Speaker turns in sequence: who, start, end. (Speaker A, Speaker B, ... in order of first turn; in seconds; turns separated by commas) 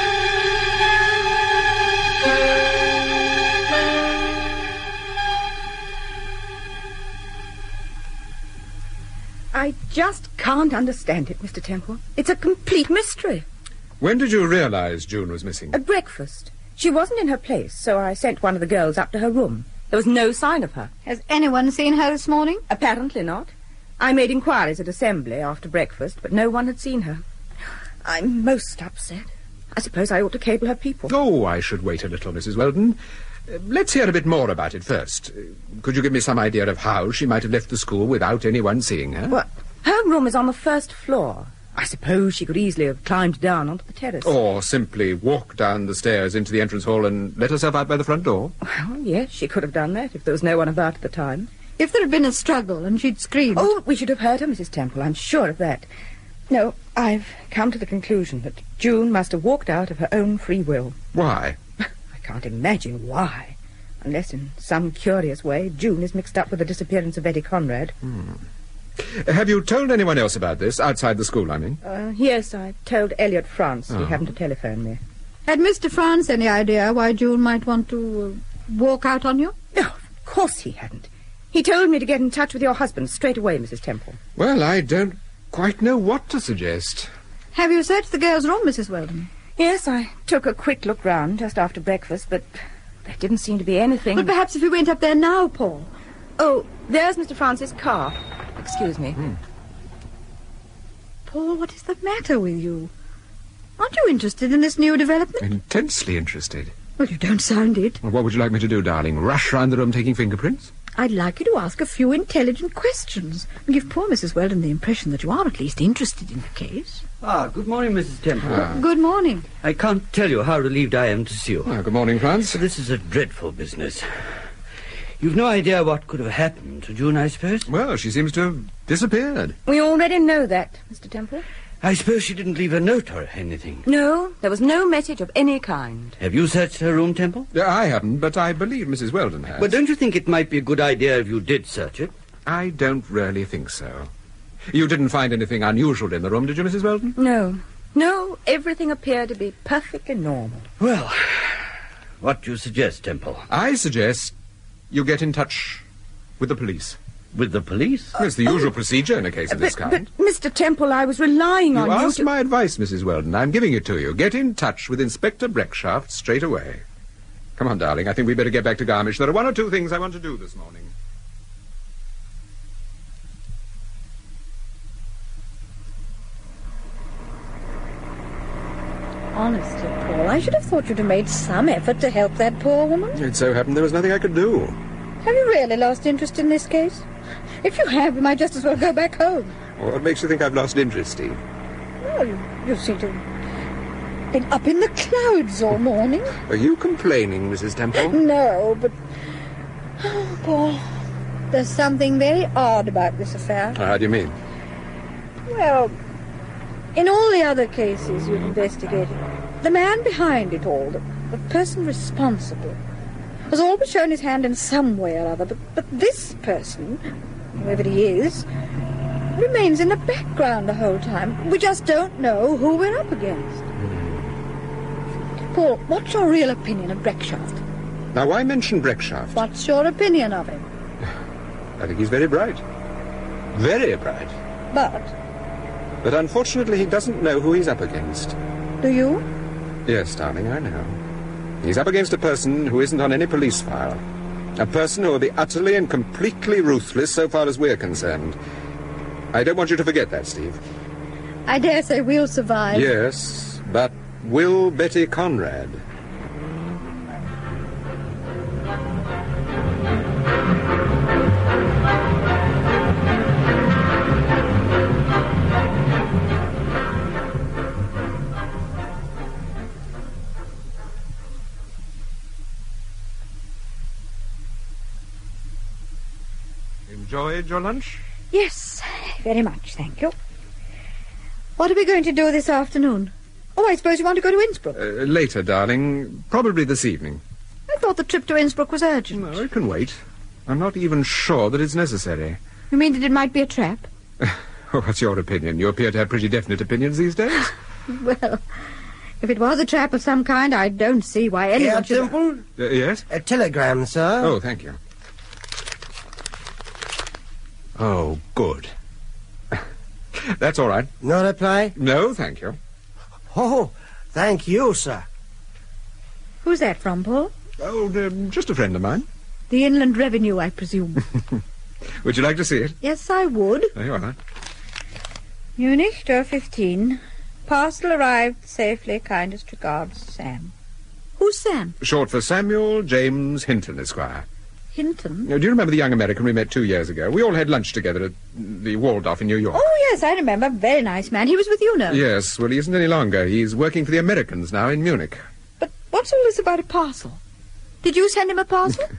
Speaker A: 9.5-13.4, Speaker B: 14.0-15.8, Speaker A: 15.7-20.9, Speaker C: 21.1-22.6, Speaker A: 22.7-27.2, Speaker A: 28.1-31.1, Speaker B: 31.1-39.4, Speaker A: 39.3-44.3, Speaker B: 44.2-48.5, Speaker A: 48.6-51.5, Speaker C: 51.8-53.7, Speaker A: 53.6-55.9, Speaker A: 56.5-61.0, Speaker B: 61.1-61.6, Speaker A: 62.2-67.9, Speaker B: 68.0-68.4, Speaker B: 69.0-71.8, Speaker A: 71.8-75.0, Speaker C: 75.5-79.5, Speaker A: 79.7-84.2, Speaker B: 84.4-87.1, Speaker C: 87.5-89.3, Speaker A: 89.6-92.5, Speaker A: 93.0-94.3, Speaker C: 94.1-95.9, Speaker A: 96.4-99.2, Speaker C: 101.3-102.9, Speaker C: 103.8-105.5, Speaker B: 105.4-106.7, Speaker C: 107.0-108.0, Speaker B: 108.0-110.7, Speaker C: 111.0-117.0, Speaker D: 117.2-118.7, Speaker B: 118.4-118.8, Speaker C: 118.7-119.5, Speaker D: 119.6-121.8, Speaker B: 121.7-122.6, Speaker D: 122.5-124.0, Speaker D: 125.2-127.7, Speaker B: 127.7-129.6, Speaker A: 129.7-131.4, Speaker D: 131.8-133.9, Speaker A: 133.9-136.2, Speaker D: 136.2-137.5, Speaker B: 137.5-139.7, Speaker D: 139.6-142.1, Speaker B: 142.5-144.1, Speaker B: 144.7-147.1, Speaker A: 147.2-150.7, Speaker D: 150.8-151.6, Speaker D: 152.2-153.5, Speaker B: 153.5-154.3, Speaker B: 154.9-155.8, Speaker B: 156.4-157.0, Speaker D: 157.3-158.2, Speaker B: 158.2-160.1, Speaker A: 158.2-158.7, Speaker A: 159.5-162.3, Speaker B: 161.7-166.8, Speaker B: 167.6-170.9, Speaker C: 179.3-183.2, Speaker B: 183.1-184.8, Speaker C: 185.2-187.1, Speaker C: 187.6-189.6, Speaker B: 189.8-191.4, Speaker C: 192.0-193.3, Speaker C: 194.3-196.4, Speaker B: 196.5-198.2, Speaker C: 198.0-198.9, Speaker C: 200.0-200.9, Speaker C: 201.5-203.8, Speaker B: 203.7-204.3, Speaker C: 205.5-205.9, Speaker C: 206.9-212.8, Speaker C: 213.5-217.0, Speaker C: 217.6-218.5, Speaker C: 219.3-223.7, Speaker C: 225.5-227.6, Speaker B: 228.1-229.4, Speaker C: 229.3-230.7, Speaker B: 231.8-232.6, Speaker B: 233.5-234.3, Speaker C: 234.7-235.1, Speaker B: 236.0-238.4, Speaker C: 238.8-239.2, Speaker B: 239.9-241.0, Speaker B: 241.6-244.0, Speaker B: 244.6-248.4, Speaker B: 249.3-250.6, Speaker C: 251.5-252.9, Speaker B: 252.7-255.8, Speaker B: 276.9-278.0, Speaker C: 278.3-280.1, Speaker C: 281.6-284.8, Speaker B: 284.8-287.2, Speaker C: 287.7-289.4, Speaker B: 289.1-292.4, Speaker C: 292.7-293.9, Speaker B: 294.2-297.5, Speaker C: 297.9-298.4, Speaker C: 299.2-302.1, Speaker E: 301.6-302.5, Speaker B: 302.6-303.1, Speaker E: 303.1-304.4, Speaker B: 304.2-304.8, Speaker B: 307.8-308.7, Speaker B: 310.2-310.9, Speaker E: 311.0-311.8, Speaker B: 311.8-312.6, Speaker E: 313.3-315.1, Speaker C: 316.4-317.3, Speaker B: 317.6-319.1, Speaker C: 319.5-321.1, Speaker B: 322.0-322.8, Speaker C: 322.8-323.7, Speaker B: 323.8-324.2, Speaker C: 325.6-330.5, Speaker C: 331.2-331.8, Speaker B: 331.8-334.3, Speaker C: 334.7-335.3, Speaker B: 335.3-339.7, Speaker C: 339.5-342.0, Speaker B: 341.9-345.2, Speaker C: 345.6-347.2, Speaker C: 347.8-348.9